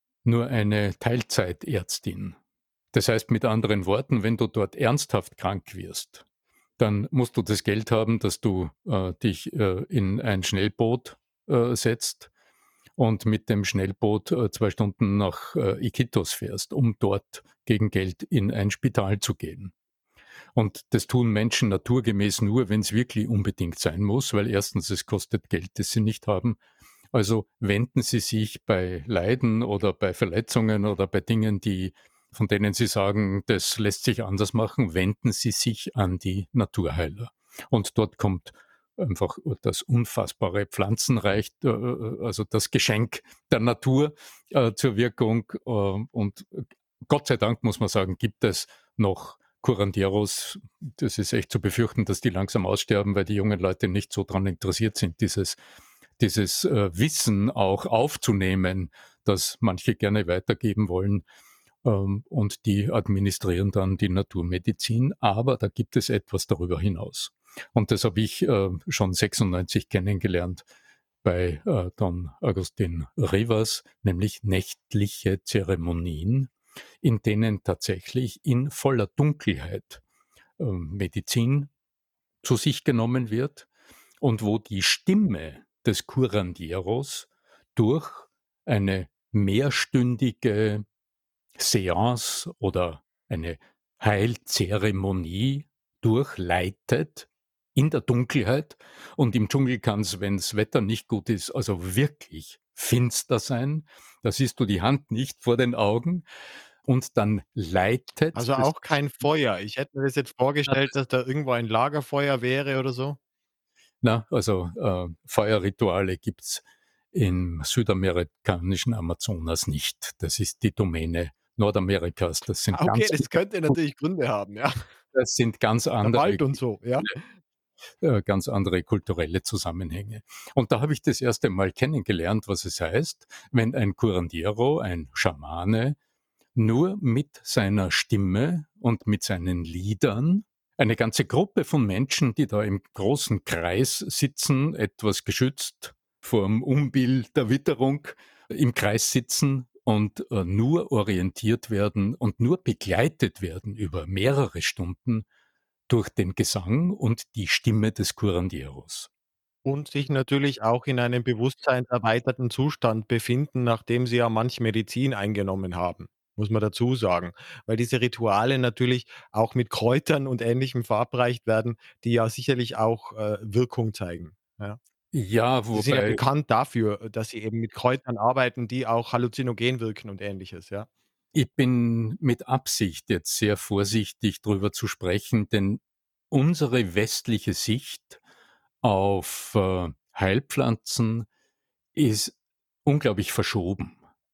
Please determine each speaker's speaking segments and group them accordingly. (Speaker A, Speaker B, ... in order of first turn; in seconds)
Speaker A: 0.2-2.4, 2.9-6.2, 6.8-12.3, 13.0-19.7, 20.5-26.6, 27.1-55.6, 56.2-61.2, 61.8-70.6, 71.2-76.5, 77.0-80.0, 80.6-81.7, 82.4-83.7, 84.2-90.8, 91.6-106.2, 106.8-108.7, 110.7-110.9, 114.0-123.3, 125.1-127.1, 128.0-136.0, 136.5-155.2, 155.9-159.1, 175.1-176.2, 181.3-188.2, 188.8-191.3, 191.9-194.0
Speaker B: 108.3-113.2, 122.7-124.8, 126.0-127.1, 159.6-174.8, 175.7-180.9